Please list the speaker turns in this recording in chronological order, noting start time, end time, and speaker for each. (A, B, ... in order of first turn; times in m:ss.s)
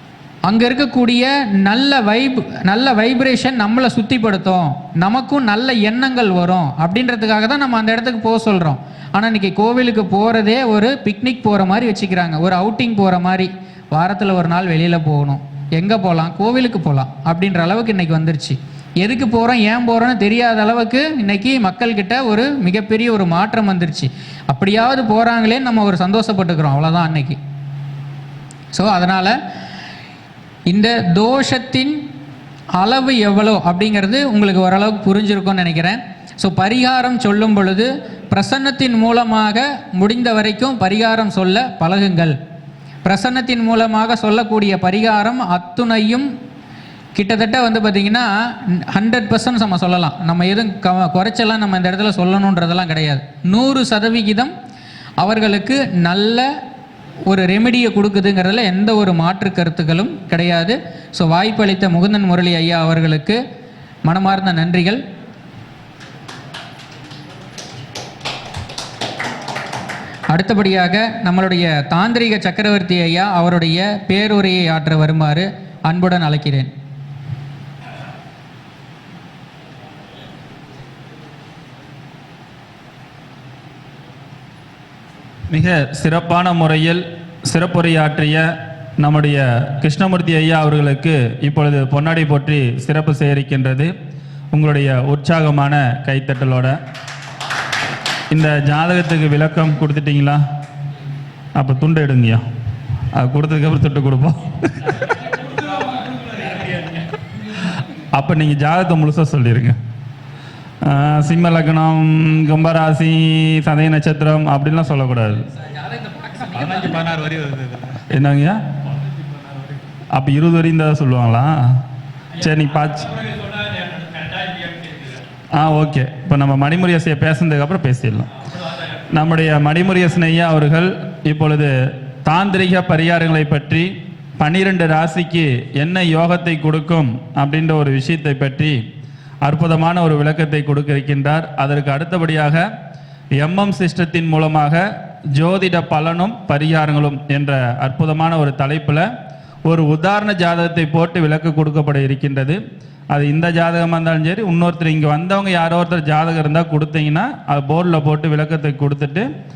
0:00.4-0:27.4 A
0:28.7-0:29.4 A
0:30.7-0:32.0 A
0:32.8-0:42.4 A
0:43.0-0:46.3 A
0:47.1-0:54.5 A
0:55.2-0:56.5 A
0:57.2-1:03.4 A
1:04.0-1:05.0 A
1:10.3-1:16.7 A
1:25.5-1:28.4 B
1:29.0-1:33.9 B
1:34.5-1:36.8 B
1:38.3-1:40.4 B
1:41.6-1:42.4 B
1:43.1-1:45.0 B
1:45.6-1:46.7 C
1:48.1-1:49.7 B
1:50.8-1:55.5 B
1:56.0-1:57.9 C
1:57.9-1:58.6 B
2:00.1-2:01.6 B
2:02.4-2:03.3 B
2:03.3-2:05.2 C
2:05.5-2:08.3 B
2:09.1-2:11.7 B
2:12.2-2:13.9 B
2:14.4-2:18.8 B
2:19.4-2:22.6 B
2:23.4-2:24.8 B
2:25.4-2:29.1 B
2:29.7-2:32.6 B
2:33.1-2:39.3 B